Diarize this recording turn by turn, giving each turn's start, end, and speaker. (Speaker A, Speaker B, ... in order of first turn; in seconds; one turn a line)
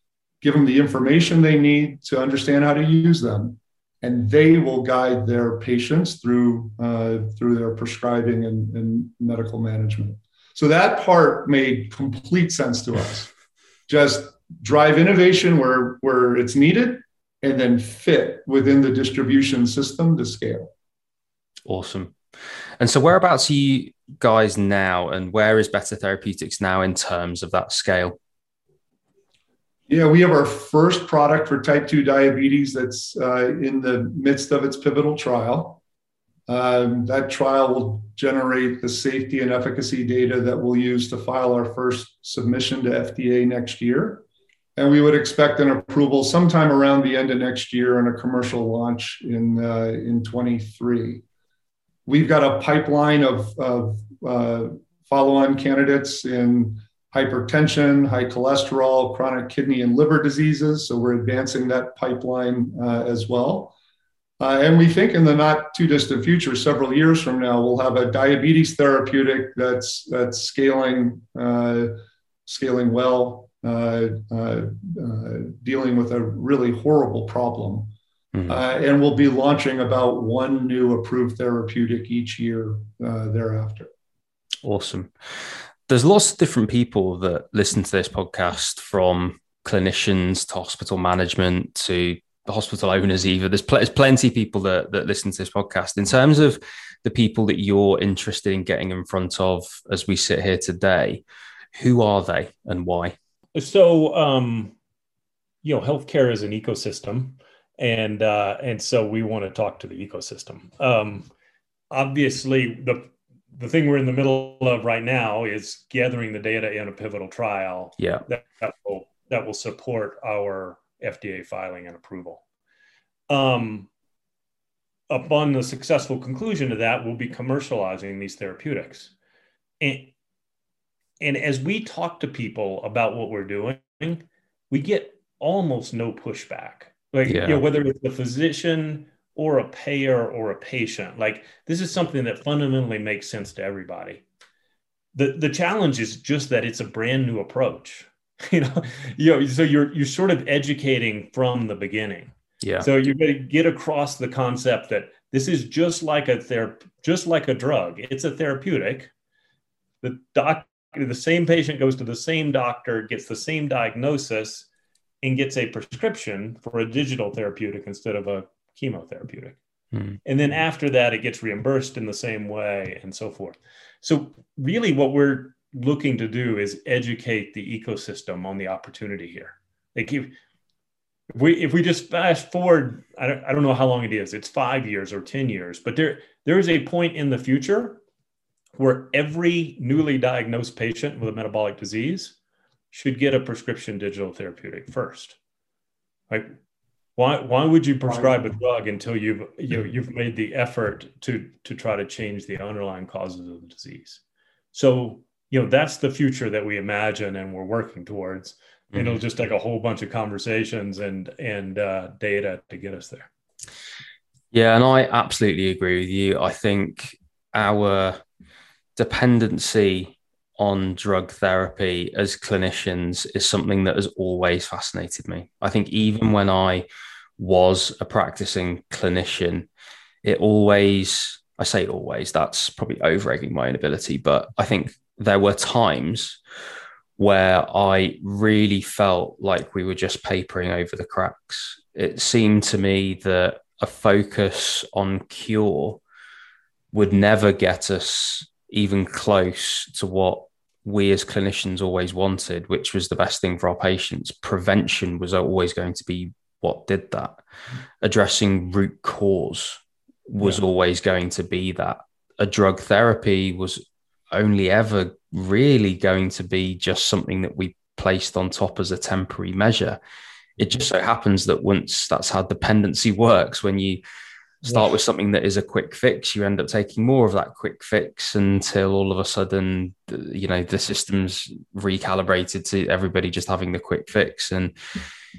Speaker A: 0.4-13.3
Speaker A: 13.9-20.7
Speaker B: 21.6-22.1
Speaker B: 22.8-28.2
Speaker A: 29.9-35.8
Speaker A: 36.5-44.2
Speaker A: 44.8-51.2
Speaker A: 52.0-63.7
Speaker A: 64.4-77.9
Speaker B: 78.3-78.6
Speaker A: 78.5-83.9
Speaker B: 84.6-85.1
Speaker B: 85.9-101.2
Speaker B: 101.7-103.2
Speaker C: 103.5-104.7
Speaker C: 105.6-111.3
Speaker C: 111.9-122.4
Speaker B: 118.0-118.2
Speaker C: 123.3-123.9
Speaker C: 125.1-129.1
Speaker C: 129.8-130.1
Speaker C: 131.2-144.2
Speaker B: 137.3-137.6
Speaker C: 145.1-159.1
Speaker B: 152.6-152.9
Speaker C: 160.0-164.7
Speaker C: 165.2-169.6
Speaker C: 170.2-180.3
Speaker C: 181.3-188.0
Speaker C: 188.8-192.3
Speaker C: 192.9-195.4
Speaker C: 197.2-204.2
Speaker C: 204.7-213.3
Speaker B: 208.9-209.2
Speaker B: 214.5-218.2
Speaker B: 218.9-226.8
Speaker B: 227.4-229.7
Speaker B: 230.2-236.4
Speaker B: 237.2-246.0
Speaker B: 246.9-257.4
Speaker B: 258.0-263.8
Speaker B: 264.3-270.0
Speaker B: 270.6-274.0
Speaker B: 274.6-284.7
Speaker C: 274.6-274.9